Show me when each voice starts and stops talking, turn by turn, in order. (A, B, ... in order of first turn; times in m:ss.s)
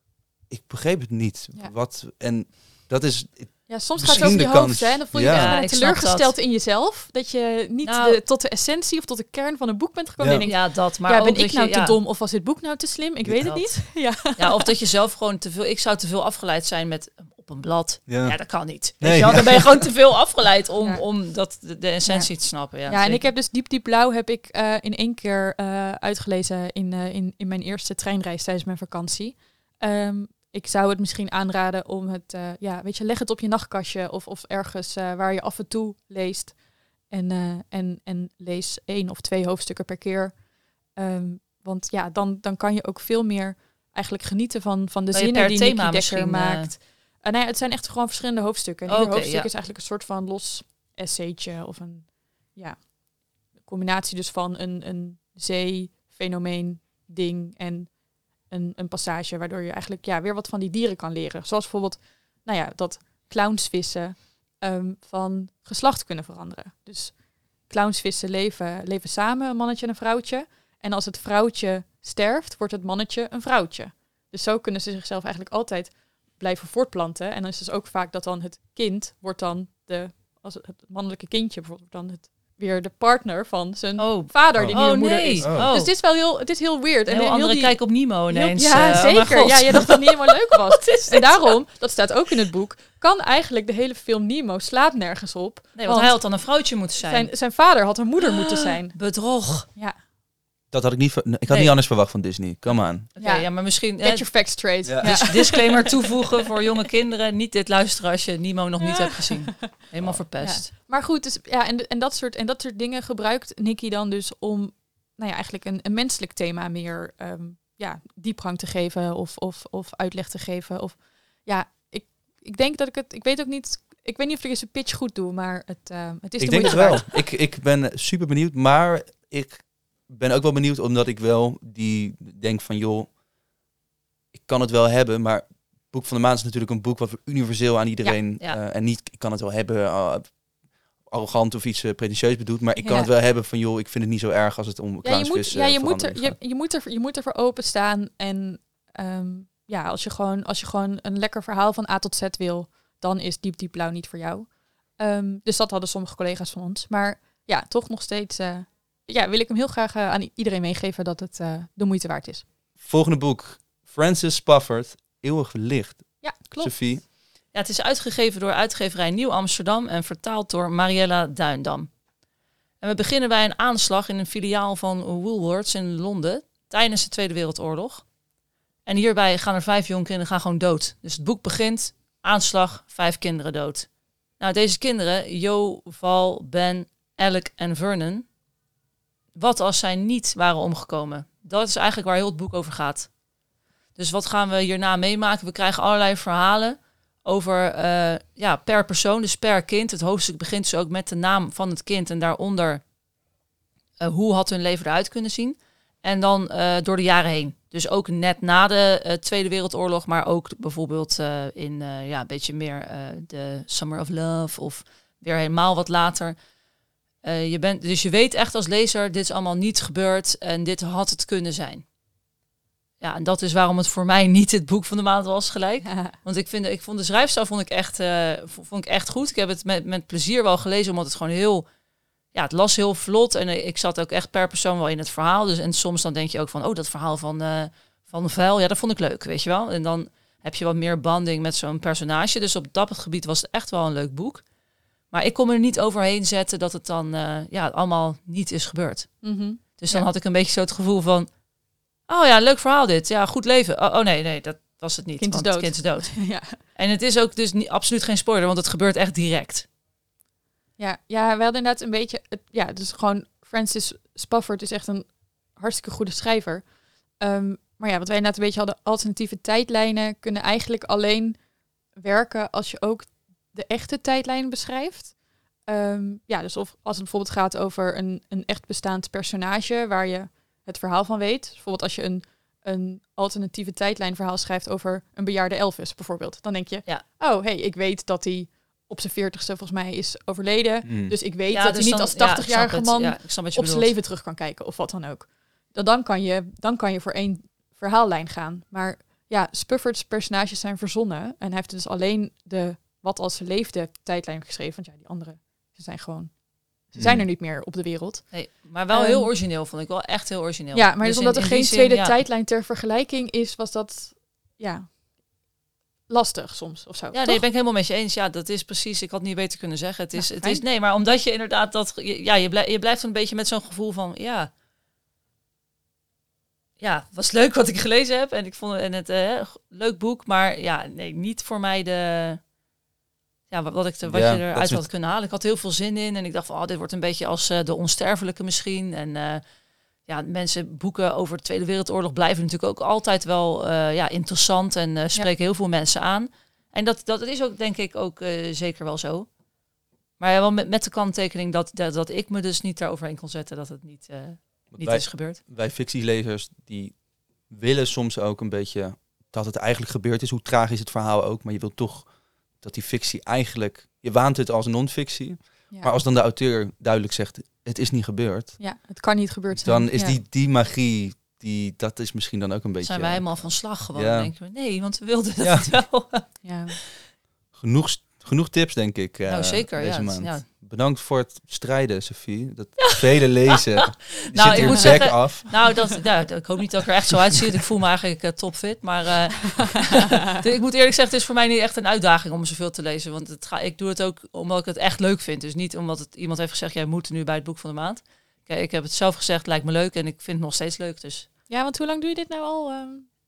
0:00.5-0:05.5 A
0:03.7-0:14.7 B
0:05.1-0:06.3 C
0:07.8-0:08.2 C
0:10.2-0:10.4 A
0:10.4-0:12.0 C
0:13.4-0:23.3 C
0:18.1-0:19.9 A
0:22.8-0:36.6 B
0:37.1-0:40.4 B
0:41.0-0:52.9 B
0:45.1-0:46.7 C
0:48.9-0:49.5 C
0:53.6-0:57.9 B
0:58.5-1:36.2 B
1:24.0-1:25.9 C
1:24.5-1:25.7 A
1:27.1-1:31.5 C
1:35.8-1:37.3 C
1:37.0-1:39.1 B
1:38.2-1:39.7 C
1:39.6-1:40.0 B
1:40.7-1:43.1 A
1:43.1-1:44.2 C
1:43.2-1:46.4 B
1:44.8-1:45.2 A
1:45.0-1:50.7 C
1:48.8-1:49.7 B
1:50.4-2:07.1 B
2:06.4-2:13.1 A
2:14.3-2:20.4 A
2:18.0-2:18.6 C
2:21.0-2:26.4 A
2:22.8-2:23.1 B
2:25.0-2:42.4 B
2:42.8-2:47.0 A
2:46.2-2:46.7 B
2:47.5-2:51.9 C
2:52.8-2:58.1 C
2:58.8-3:08.2 C
3:09.4-3:13.1 C
3:14.0-3:22.8 C
3:24.0-3:36.4 C
3:37.2-3:41.8 C
3:43.0-3:51.6 C
3:45.8-3:46.1 B
3:52.3-4:04.4 C
4:05.1-4:09.1 C
4:09.2-4:10.0 B
4:09.8-4:11.3 C
4:12.1-4:16.1 C
4:15.2-4:16.6 B
4:16.7-4:19.7 C
4:20.8-4:26.6 B
4:27.2-4:31.4 B
4:32.0-5:08.3 B
4:50.8-4:51.1 A
4:51.5-4:53.9 C
5:06.9-5:07.2 A
5:08.3-5:12.1 C
5:08.9-5:09.3 B
5:10.7-5:15.0 B
5:16.1-5:17.4 B
5:17.1-5:24.5 C
5:20.2-5:20.6 B
5:26.8-5:32.4 C
5:33.5-5:39.4 C
5:34.0-5:34.8 A
5:40.0-5:49.3 C
5:50.2-5:55.4 C
5:54.7-6:08.6 A
6:08.6-6:10.2 B
6:09.5-6:14.3 A
6:12.8-6:16.3 C
6:15.4-6:15.8 A
6:16.4-6:16.8 B
6:17.5-6:25.7 A
6:19.3-6:20.4 C
6:23.6-6:41.3 C
6:41.5-6:43.1 B